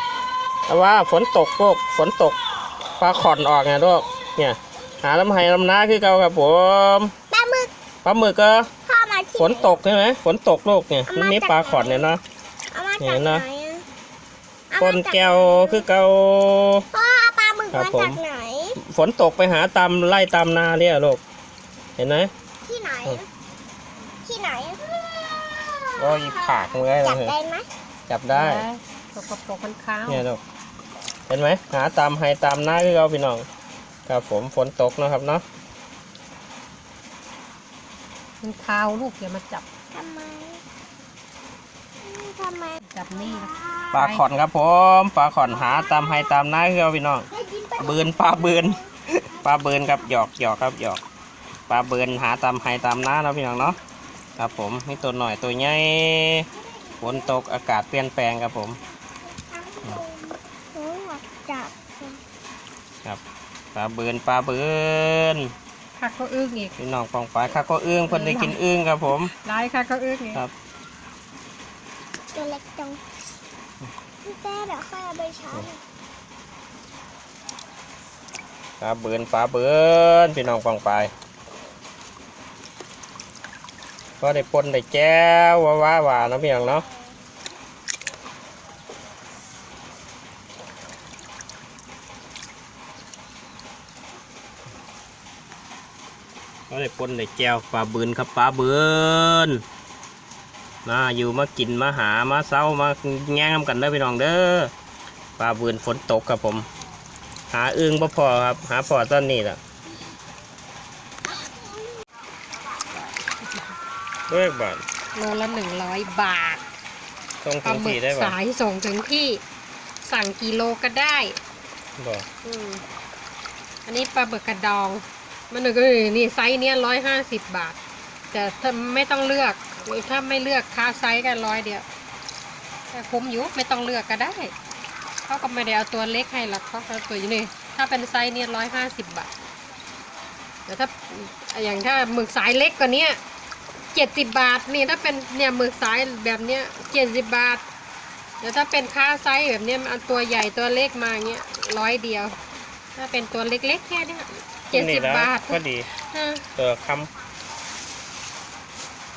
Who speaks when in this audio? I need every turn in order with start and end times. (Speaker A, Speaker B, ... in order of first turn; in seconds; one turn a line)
Speaker A: 0.7-2.4
Speaker A: 3.0-7.1
Speaker B: 7.3-7.7
Speaker A: 8.0-8.7
Speaker B: 8.8-9.7
Speaker A: 9.4-12.2
Speaker B: 11.1-12.1
Speaker B: 12.7-13.8
Speaker A: 13.0-13.4
Speaker B: 14.7-15.8
Speaker A: 14.8-16.9
Speaker B: 16.9-18.8
Speaker A: 17.7-18.2
Speaker A: 18.8-21.2
Speaker A: 22.0-22.3
Speaker B: 22.6-23.2
Speaker B: 24.2-24.8
Speaker B: 25.8-27.7
Speaker A: 26.0-27.3
Speaker A: 28.1-28.6
Speaker C: 28.3-30.2
Speaker A: 30.1-30.4
Speaker A: 31.3-33.5
Speaker A: 34.1-35.4
Speaker C: 38.4-39.6
Speaker B: 39.9-40.6
Speaker B: 42.0-43.9
Speaker C: 42.8-44.2
Speaker A: 43.9-51.0
Speaker B: 45.6-46.3
Speaker B: 47.3-48.8
Speaker A: 51.7-53.8
Speaker A: 54.4-56.5
Speaker B: 56.9-57.2
Speaker A: 57.0-58.8
Speaker B: 59.5-62.2
Speaker A: 63.7-65.5
Speaker C: 66.0-66.7
Speaker A: 66.8-69.3
Speaker C: 68.1-68.6
Speaker C: 69.4-70.4
Speaker B: 72.3-73.0
Speaker B: 74.2-75.8
Speaker A: 78.8-81.1
Speaker A: 84.2-86.8
Speaker A: 96.7-99.6
Speaker A: 100.8-104.7
Speaker A: 105.4-106.7
Speaker A: 107.5-109.6
Speaker A: 114.3-114.8
Speaker C: 115.1-116.6
Speaker A: 117.4-118.3
Speaker C: 117.6-119.4
Speaker C: 120.0-121.4
Speaker A: 122.0-122.2
Speaker C: 122.4-122.8
Speaker C: 123.8-127.8
Speaker C: 128.3-131.8
Speaker C: 132.9-134.5
Speaker C: 135.2-139.3
Speaker C: 140.7-143.2
Speaker C: 143.9-147.6
Speaker C: 148.4-152.4
Speaker C: 152.9-156.4
Speaker A: 154.7-155.9
Speaker A: 156.6-157.1